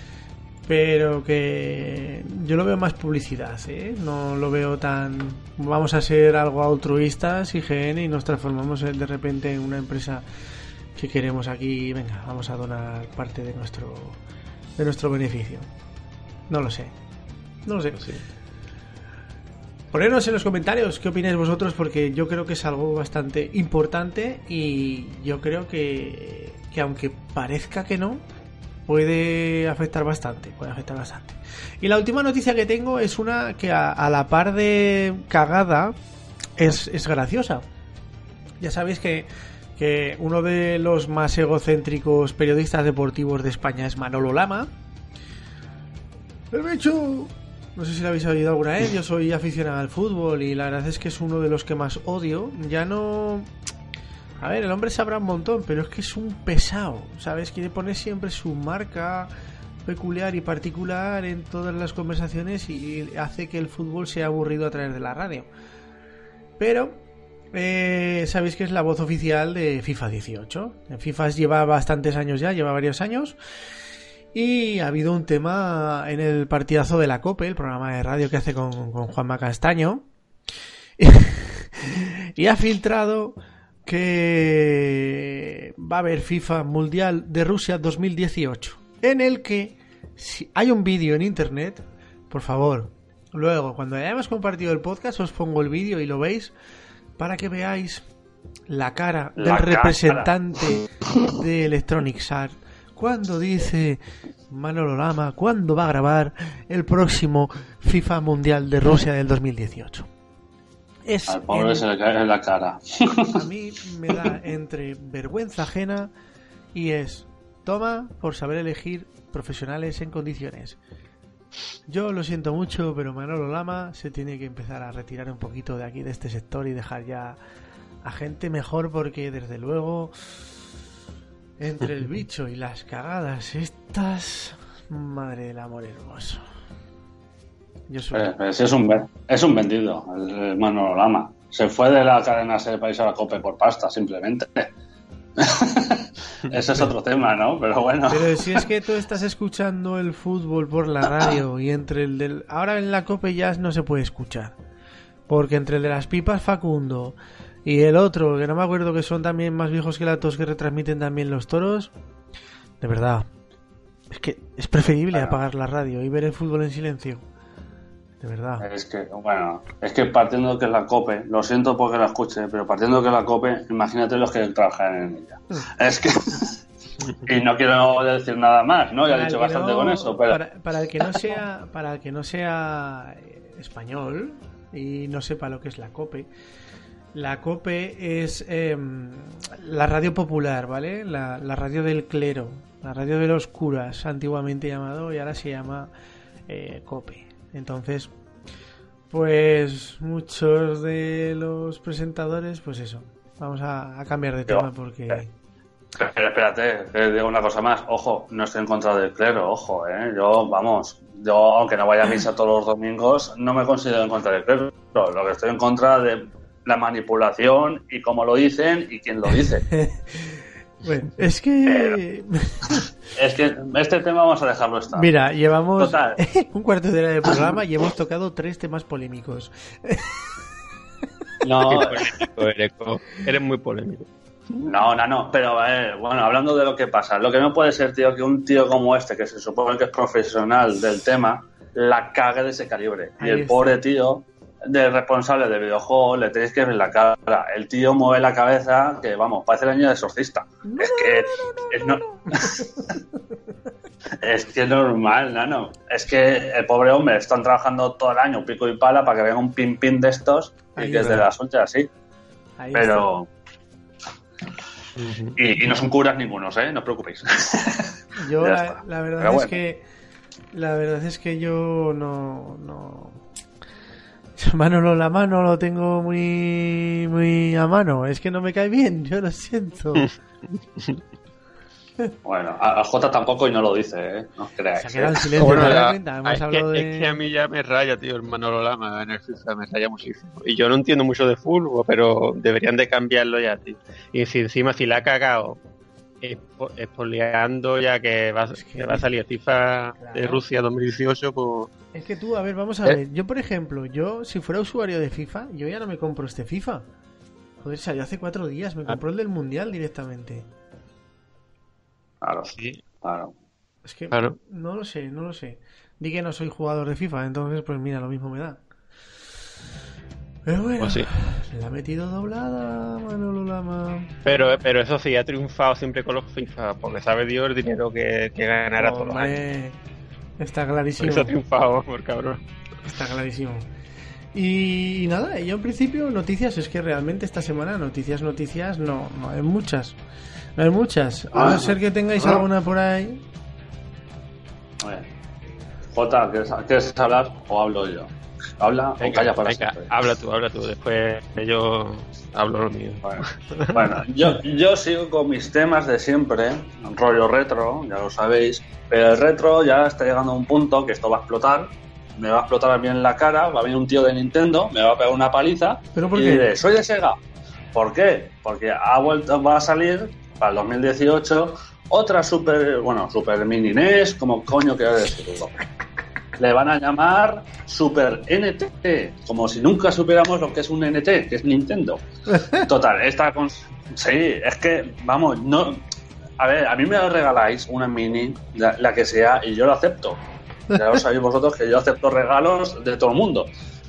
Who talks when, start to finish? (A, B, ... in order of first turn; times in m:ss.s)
0:00.6-0:10.2 A
0:11.0-0:14.2 A
0:14.8-0:15.7 A
0:16.5-0:16.9 A
0:17.6-0:18.0 A
0:18.0-0:18.2 B
0:19.9-0:28.2 A
0:28.9-0:36.0 A
0:36.6-0:37.6 A
0:38.6-0:44.7 A
0:46.5-0:53.5 A
0:54.4-0:59.3 A
0:59.8-1:05.5 A
1:06.6-1:07.0 A
1:07.5-1:13.4 A
1:14.3-1:20.1 A
1:21.0-1:36.5 A
1:37.2-1:38.0 A
1:38.7-1:50.1 A
1:39.4-1:40.3 C
1:51.0-1:51.8 A
1:51.3-1:53.4 C
1:53.3-1:56.1 A
1:56.7-2:00.8 A
2:01.9-2:07.4 A
2:08.0-2:10.4 A
2:11.6-2:16.4 A
2:17.9-2:18.3 A
2:18.1-2:24.7 C
2:25.4-2:28.6 C
2:28.1-2:34.6 A
2:35.3-2:41.9 A
2:42.8-2:43.3 A
2:44.1-2:47.2 A
2:45.1-2:45.4 C
2:48.2-2:48.6 A
2:48.6-2:56.6 C
2:57.2-3:00.4 C
2:59.1-3:06.3 A
3:07.1-3:15.9 A
3:16.5-3:18.1 A
3:19.1-3:25.3 A
3:24.5-3:25.2 C
3:26.0-3:39.6 C
3:39.7-3:42.8 A
3:41.6-3:42.0 C
3:43.1-3:45.1 C
3:44.9-3:50.4 A
3:45.8-3:46.2 C
3:51.4-3:52.0 C
3:51.6-3:54.1 B
3:54.6-4:12.7 C
4:03.2-4:03.7 A
4:10.6-4:13.2 A
4:14.2-4:21.9 C
4:20.8-4:21.2 A
4:22.6-4:23.1 A
4:22.7-4:23.3 C
4:25.0-4:25.4 B
4:25.4-4:27.9 C
4:28.2-4:29.8 A
4:28.4-4:29.6 C
4:30.5-4:33.2 A
4:34.4-4:40.1 A
4:40.0-4:41.0 B
4:42.2-4:45.7 C
4:44.8-4:47.2 A
4:45.4-4:55.6 B
4:56.2-5:01.7 B
4:58.6-4:59.0 A
5:00.0-5:00.4 A
5:01.9-5:06.9 A
5:07.6-5:10.5 A
5:12.2-5:13.3 C
5:13.8-5:18.6 A
5:14.1-5:14.4 B
5:20.4-5:24.2 A
5:20.8-5:21.1 B
5:24.2-5:29.4 B
5:28.8-5:29.8 A
5:30.4-5:31.3 A
5:31.0-5:32.4 B
5:32.8-5:33.7 A
5:34.3-5:40.0 A
5:40.6-5:43.2 A
5:41.3-5:41.7 C
5:44.8-5:45.1 C
5:45.9-5:49.9 C
5:49.0-5:54.0 B
5:53.0-6:07.2 C
6:05.9-6:06.5 A
6:07.7-6:15.5 C
6:16.4-6:25.8 C
6:26.4-6:30.2 C
6:30.7-6:31.0 A
6:30.7-6:33.5 C